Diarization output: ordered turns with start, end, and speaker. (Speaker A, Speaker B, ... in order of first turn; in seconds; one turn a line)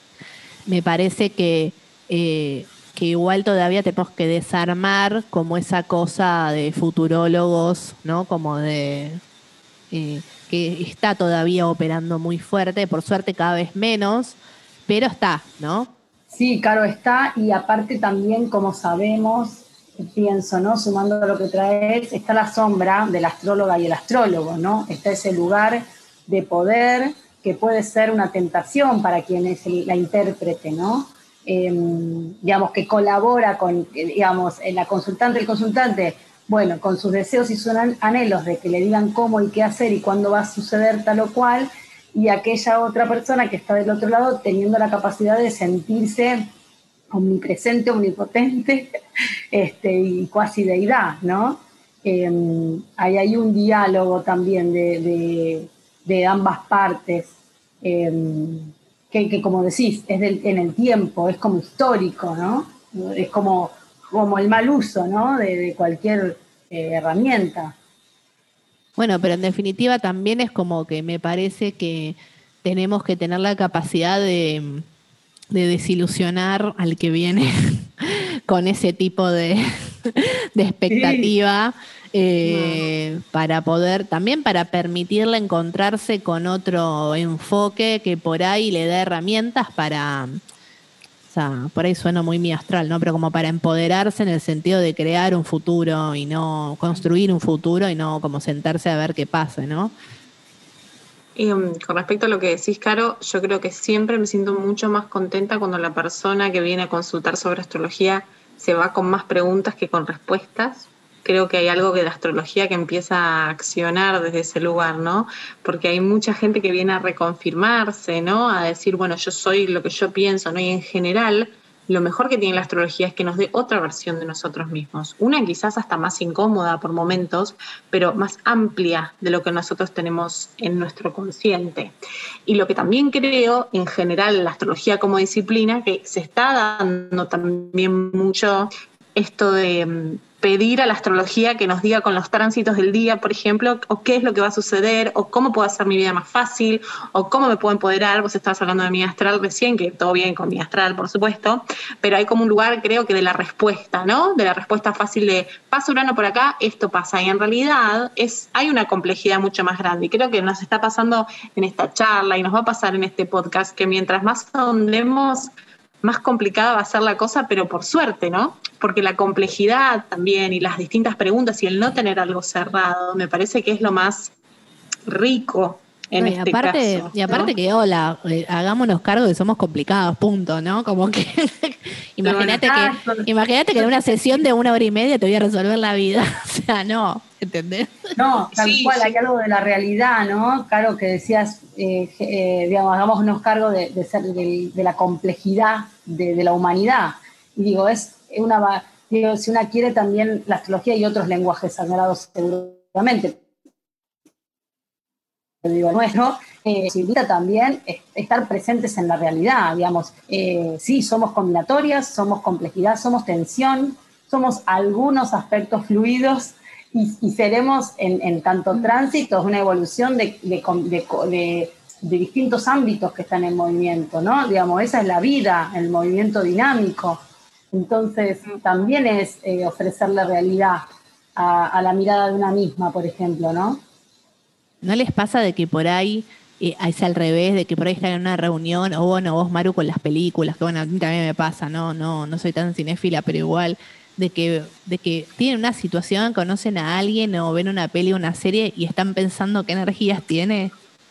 Speaker A: 0.7-9.2
Speaker A: 9.9-15.9
Speaker B: 16.3-46.5
Speaker B: 47.1-48.9
Speaker B: 49.5-57.3
Speaker B: 57.8-67.7
Speaker A: 69.0-74.8
Speaker A: 75.5-90.4
Speaker B: 80.9-81.3
Speaker A: 91.2-99.9
Speaker C: 101.3-131.9
Speaker C: 132.4-165.5
Speaker C: 166.0-174.3
Speaker C: 175.1-177.5
Speaker A: 176.2-188.1
Speaker C: 182.2-182.6
Speaker B: 182.6-184.0
Speaker B: 188.2-203.4
Speaker C: 188.5-189.2
Speaker B: 205.6-227.2
Speaker B: 227.7-230.8
Speaker B: 231.4-233.8
Speaker A: 234.8-250.7